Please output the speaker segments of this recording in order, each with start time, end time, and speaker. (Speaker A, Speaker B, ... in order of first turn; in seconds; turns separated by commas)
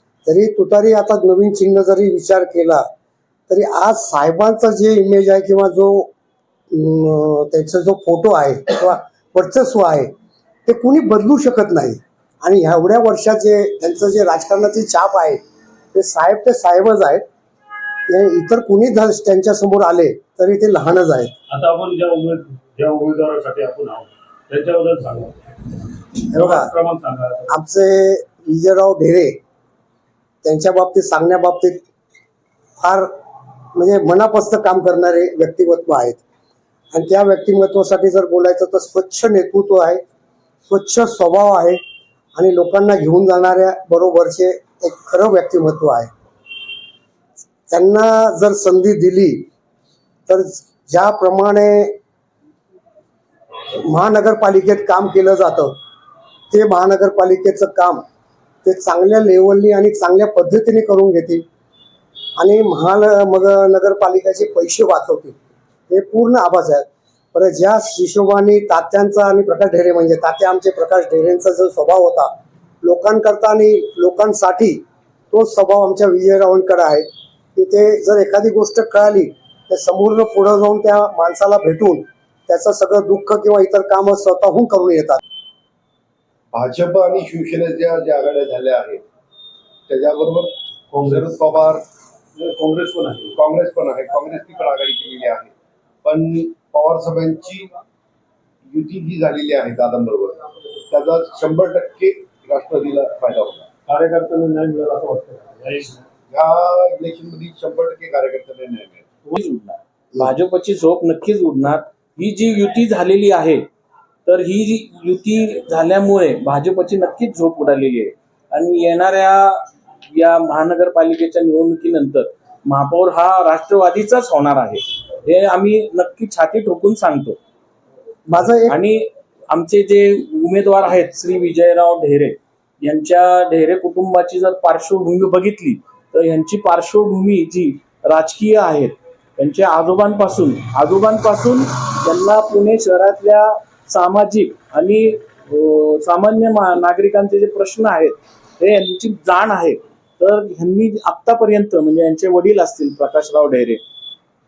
Speaker A: 0.3-2.9, Speaker A: 3.5-6.1, Speaker A: 6.7-10.1, Speaker A: 10.7-15.4, Speaker A: 15.9-17.2, Speaker A: 18.1-21.3, Speaker B: 21.5-25.5, Speaker B: 26.2-27.6, Speaker A: 26.3-26.7, Speaker A: 27.5-29.4, Speaker A: 30.4-31.9, Speaker A: 32.8-33.1, Speaker A: 33.7-36.2, Speaker A: 36.9-40.0, Speaker A: 40.6-41.8, Speaker A: 42.4-46.1, Speaker A: 47.7-49.5, Speaker A: 50.3-52.0, Speaker A: 53.7-55.7, Speaker A: 56.5-58.0, Speaker A: 58.6-61.5, Speaker A: 62.4-65.4, Speaker A: 65.9-72.3, Speaker A: 72.8-85.2, Speaker C: 86.5-89.0, Speaker C: 89.9-90.5, Speaker B: 90.9-91.4, Speaker C: 91.0-91.8, Speaker B: 92.4-93.4, Speaker C: 93.4-95.5, Speaker C: 96.0-97.7, Speaker C: 98.7-103.7, Speaker B: 103.9-106.0, Speaker C: 106.3-109.0, Speaker D: 109.3-113.7, Speaker D: 114.3-127.4, Speaker A: 128.3-128.8, Speaker D: 128.7-153.8